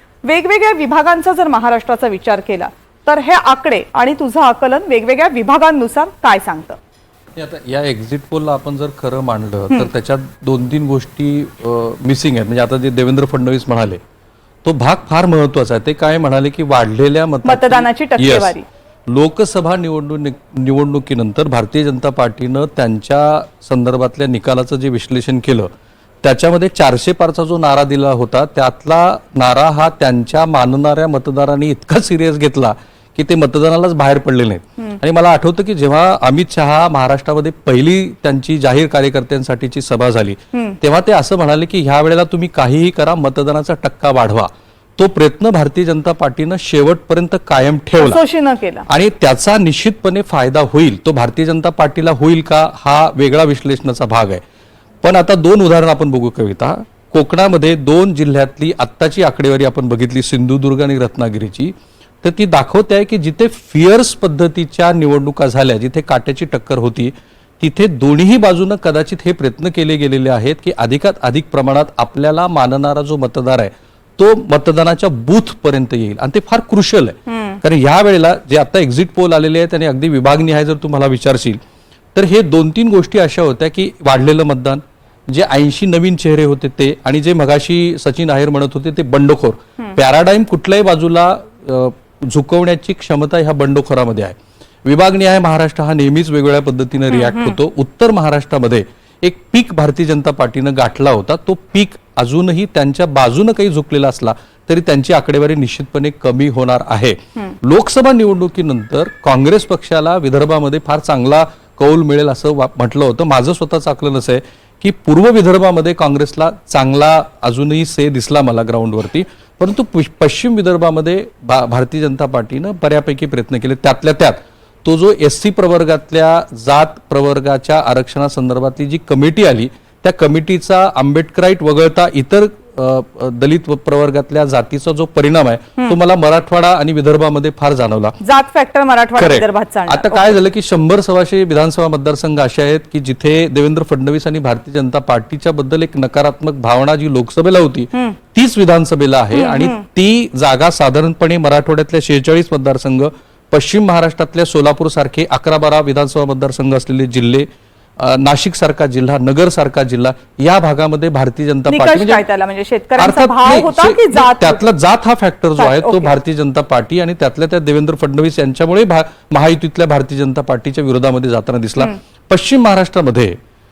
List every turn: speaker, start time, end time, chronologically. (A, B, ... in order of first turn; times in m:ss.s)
0:00.2-0:06.8 A
0:07.4-0:14.0 B
0:14.6-0:18.5 B
0:17.4-0:18.6 A
0:19.1-0:25.7 B
0:26.2-0:48.2 B
0:40.5-0:40.8 A
0:48.0-0:48.8 A
0:48.9-0:54.4 B
0:55.0-1:21.6 B
1:17.3-1:17.6 A
1:22.1-2:18.2 B
1:37.1-1:37.6 A
2:18.2-2:20.4 A
2:19.2-2:37.4 B
2:29.3-2:29.8 A
2:38.0-2:42.2 B
2:41.7-2:44.7 A
2:43.0-2:53.3 B
2:45.6-2:46.1 A